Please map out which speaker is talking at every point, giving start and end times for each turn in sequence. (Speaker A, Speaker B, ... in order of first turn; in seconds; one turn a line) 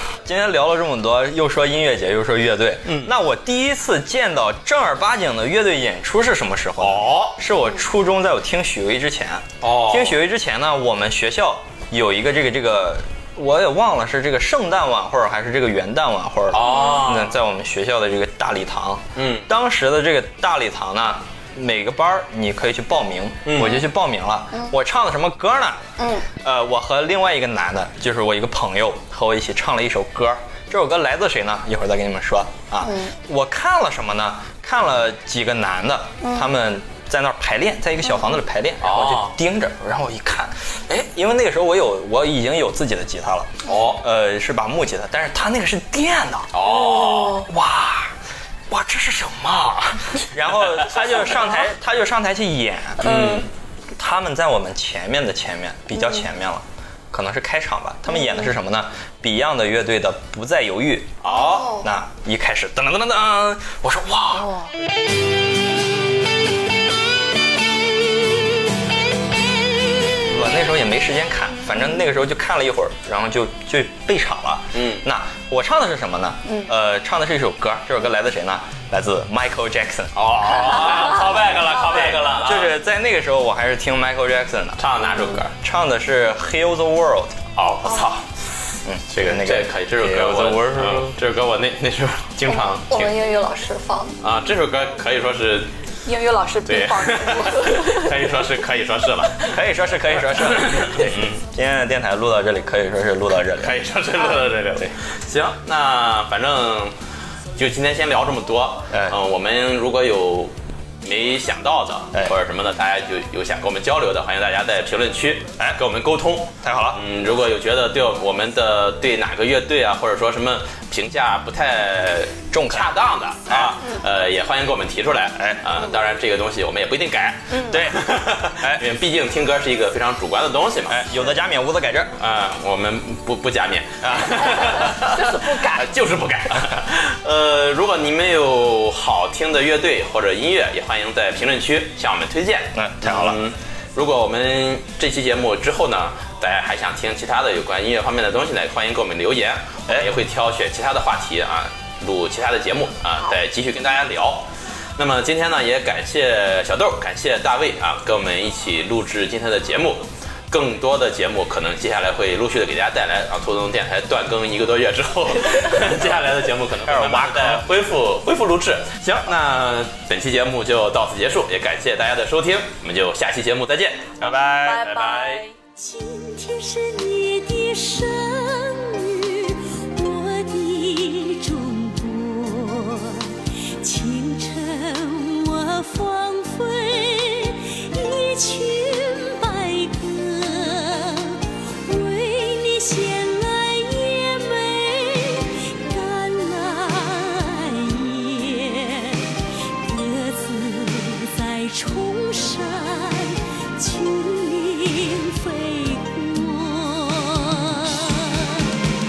Speaker A: 0.2-48.2
Speaker B: 2.9-3.1
Speaker B: 6.8-7.4
Speaker B: 9.6-10.2
Speaker B: 16.5-17.4
Speaker C: 16.7-17.0
Speaker B: 19.2-19.5
Speaker B: 23.4-23.9
Speaker C: 26.0-26.3
Speaker C: 32.8-33.1
Speaker C: 36.2-36.5
Speaker B: 38.8-39.4
Speaker B: 43.7-44.0
Speaker B: 46.5-47.4
Speaker C: 46.6-47.5
Speaker A: 48.7-53.4
Speaker B: 50.6-51.0
Speaker B: 53.0-53.5
Speaker C: 53.0-53.5
Speaker A: 54.0-64.6
Speaker B: 61.2-61.8
Speaker C: 61.3-61.8
Speaker A: 70.2-84.9
Speaker B: 74.7-75.0
Speaker B: 80.2-82.8
Speaker B: 84.8-85.5
Speaker A: 85.6-87.5
Speaker B: 87.6-88.3
Speaker C: 87.8-88.1
Speaker A: 88.8-91.2
Speaker B: 89.1-93.2
Speaker C: 92.5-94.2
Speaker B: 94.2-95.7
Speaker C: 96.0-98.2
Speaker B: 96.7-99.6
Speaker A: 99.4-103.8
Speaker B: 100.3-101.4
Speaker B: 103.6-107.0
Speaker B: 107.6-131.1
Speaker A: 108.9-109.2
Speaker A: 116.6-117.0
Speaker A: 122.5-123.0
Speaker A: 123.5-123.8
Speaker A: 125.4-125.7
Speaker C: 127.5-127.8
Speaker A: 127.7-128.8
Speaker A: 130.9-132.1
Speaker B: 132.2-174.3
Speaker A: 134.0-134.5
Speaker C: 134.7-135.8
Speaker A: 142.7-143.4
Speaker A: 166.9-167.7
Speaker A: 174.2-175.4
Speaker C: 174.6-175.5
Speaker D: 175.0-208.8